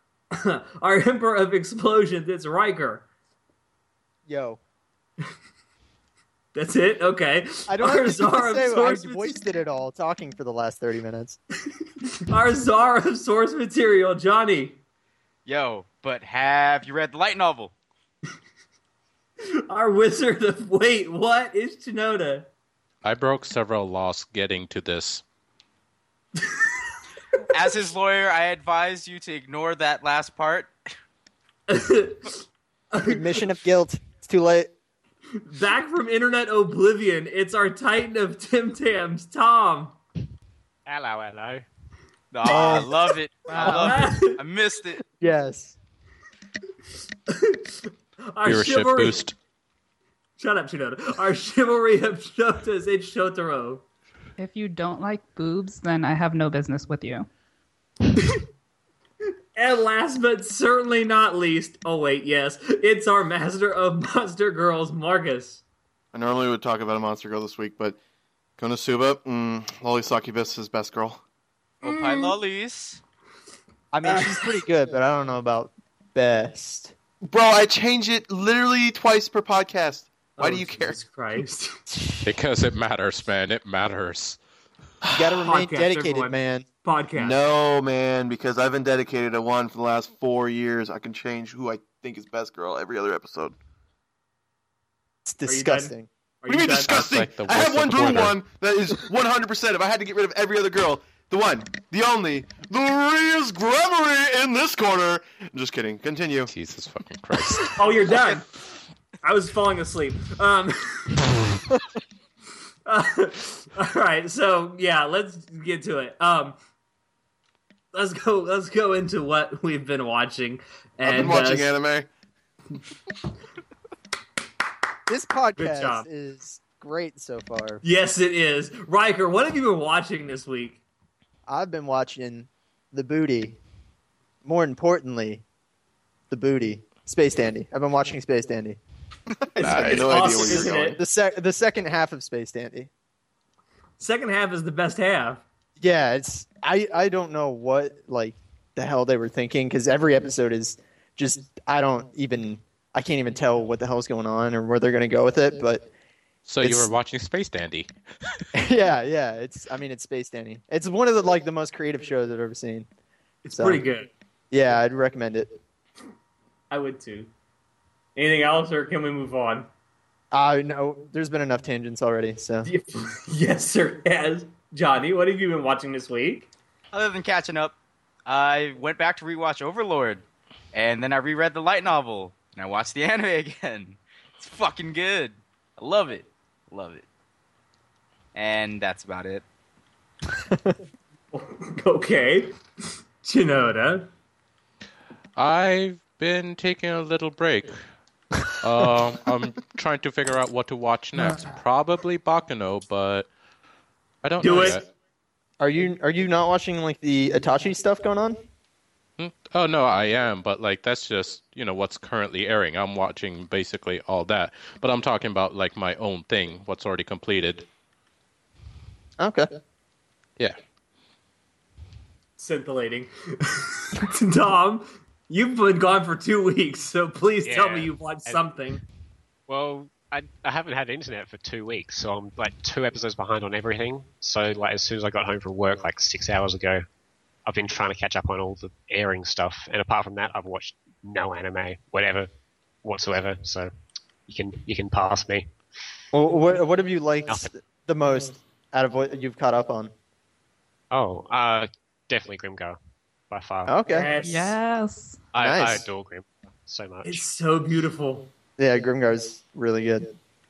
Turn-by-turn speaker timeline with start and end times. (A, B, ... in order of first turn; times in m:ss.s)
0:00.3-0:03.0 A
0:04.3-0:04.6 B
0:06.5-0:09.4 A
0:07.7-0:11.4 B
0:12.2-0:14.8 A
0:15.4-0:17.7 C
0:19.7-0:22.5 A
0:23.0-0:25.2 D
0:26.4-0:26.7 A
0:27.5-0:30.7 C
0:31.7-0:33.4 A
0:33.0-0:34.7 B
0:35.4-0:40.0 A
0:40.8-0:41.6 E
0:42.3-0:45.0 C
0:42.4-0:42.9 B
0:42.5-0:42.9 A
0:43.5-0:44.2 F
0:43.5-0:44.4 A
0:45.0-0:45.8 B
0:47.3-0:49.2 A
0:48.4-0:49.3 D
0:50.4-0:53.8 A
0:54.4-0:57.3 F
0:58.2-0:58.4 A
0:59.6-1:05.6 A
1:06.1-1:08.0 G
1:08.6-1:11.2 G
1:11.8-1:13.0 C
1:11.8-1:12.3 A
1:13.9-1:16.9 B
1:17.3-1:21.0 G
1:20.4-1:21.8 A
1:22.2-1:24.4 D
1:25.1-1:26.6 B
1:25.4-1:27.4 A
1:27.2-1:33.5 G
1:35.2-1:36.1 B
1:35.4-1:37.2 A
1:36.5-1:46.5 G
1:36.8-1:38.4 D
1:46.5-1:47.8 D
1:47.8-1:48.4 A
1:49.2-1:51.2 A
1:52.9-1:56.6 A
1:57.9-2:01.7 A
2:01.0-2:02.1 G
2:05.1-2:07.8 B
2:05.6-2:06.1 A
2:07.8-2:10.8 A
2:11.5-2:13.6 B
2:14.4-2:15.4 B
2:16.3-2:18.8 B
2:19.3-2:21.0 G
2:19.6-2:21.0 A
2:19.6-2:20.5 D
2:20.9-2:22.9 B
2:24.0-2:25.4 A
2:25.8-2:35.8 B
2:36.4-2:37.9 D
2:36.6-2:36.9 B
2:38.5-2:42.9 B
2:43.4-2:44.1 A
2:43.5-2:43.8 B
2:44.5-2:45.5 B
2:46.7-2:47.3 A
2:48.2-2:49.7 A
2:50.3-2:52.7 B
2:52.6-2:56.5 A
2:56.9-3:07.0 C
3:08.3-3:09.4 C
3:10.5-3:10.8 B
3:11.3-3:12.6 A
3:13.2-3:14.1 A
3:15.4-3:17.8 D
3:18.6-3:23.3 D
3:21.1-3:21.5 F
3:24.2-3:24.8 D
3:24.4-3:24.8 A
3:25.6-3:28.4 B
3:29.2-3:37.6 D
3:39.2-3:39.5 B
3:42.4-3:48.8 A
3:47.4-3:48.4 E
3:49.5-3:56.8 E
3:57.4-4:02.3 E
4:02.8-4:03.7 E
4:04.3-4:05.5 E
4:06.1-4:09.9 B
4:10.9-4:12.8 E
4:13.3-4:13.7 E
4:13.7-4:14.2 B
4:13.9-4:14.5 A
4:14.2-4:15.2 F
4:15.3-4:17.2 E
4:15.4-4:15.8 B
4:17.0-4:18.3 A
4:18.6-4:20.1 B